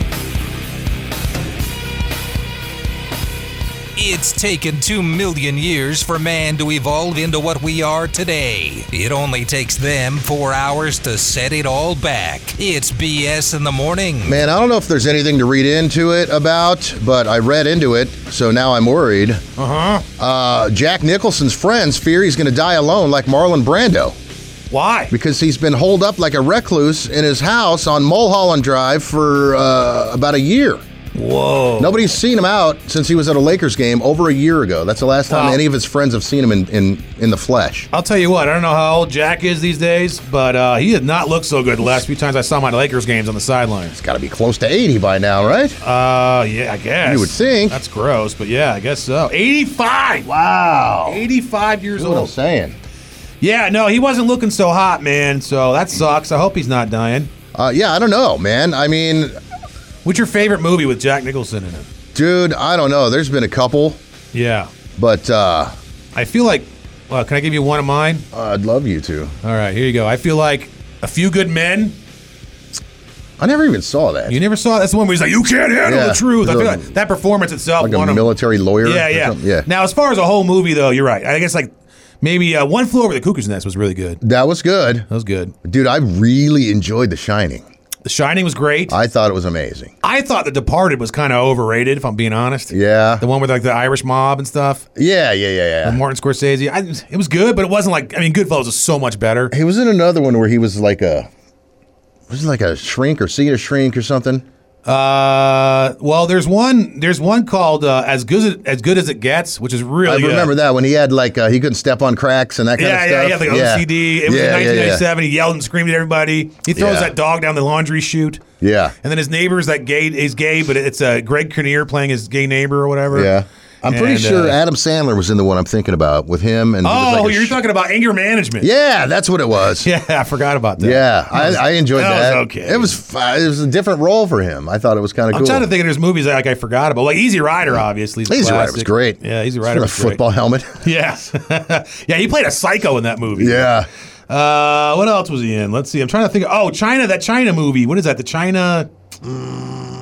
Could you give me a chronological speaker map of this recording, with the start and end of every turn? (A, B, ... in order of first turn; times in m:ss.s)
0:04.0-0:14.4 A
0:14.3-0:19.4 B
0:19.6-0:20.1 C
0:20.2-0:24.2 B
0:24.7-0:25.1 C
0:25.1-0:30.8 B
0:31.2-0:32.0 C
0:31.8-0:37.9 B
0:35.3-0:35.6 C
0:37.9-0:44.0 C
0:44.0-0:45.8 B
0:45.8-0:50.3 C
0:47.0-0:47.8 B
0:50.3-0:51.2 B
0:51.1-0:52.3 C
0:52.0-0:52.8 B
0:53.4-0:57.3 C
0:57.5-0:59.4 B
1:00.0-1:01.9 C
1:02.1-1:04.0 B
1:04.3-1:04.7 C
1:05.0-1:05.8 B
1:06.2-1:08.2 C
1:08.3-1:09.3 B
1:09.4-1:12.0 C
1:13.4-1:14.4 B
1:14.3-1:24.2 C
1:15.8-1:16.9 B
1:17.8-1:19.7 B
1:24.2-1:25.1 B
1:25.1-1:25.5 C
1:25.6-1:27.7 B
1:28.0-1:29.0 C
1:28.9-1:29.9 B
1:30.0-1:34.9 C
1:32.7-1:33.2 B
1:35.0-1:36.0 B
1:35.8-1:39.5 C
1:39.5-1:41.3 B
1:42.3-1:44.4 B
1:44.9-1:50.5 C
1:50.0-1:55.1 B
1:52.8-1:58.4 C
1:56.7-1:57.1 B
1:58.6-1:59.0 B
1:59.0-2:03.3 C
2:03.1-2:07.6 B
2:03.9-2:04.6 C
2:06.8-2:08.7 C
2:08.6-2:09.9 B
2:09.8-2:13.0 C
2:10.8-2:15.7 B
2:15.3-2:20.2 C
2:18.3-2:20.8 B
2:20.8-2:23.8 C
2:23.3-2:23.9 B
2:24.3-2:28.9 C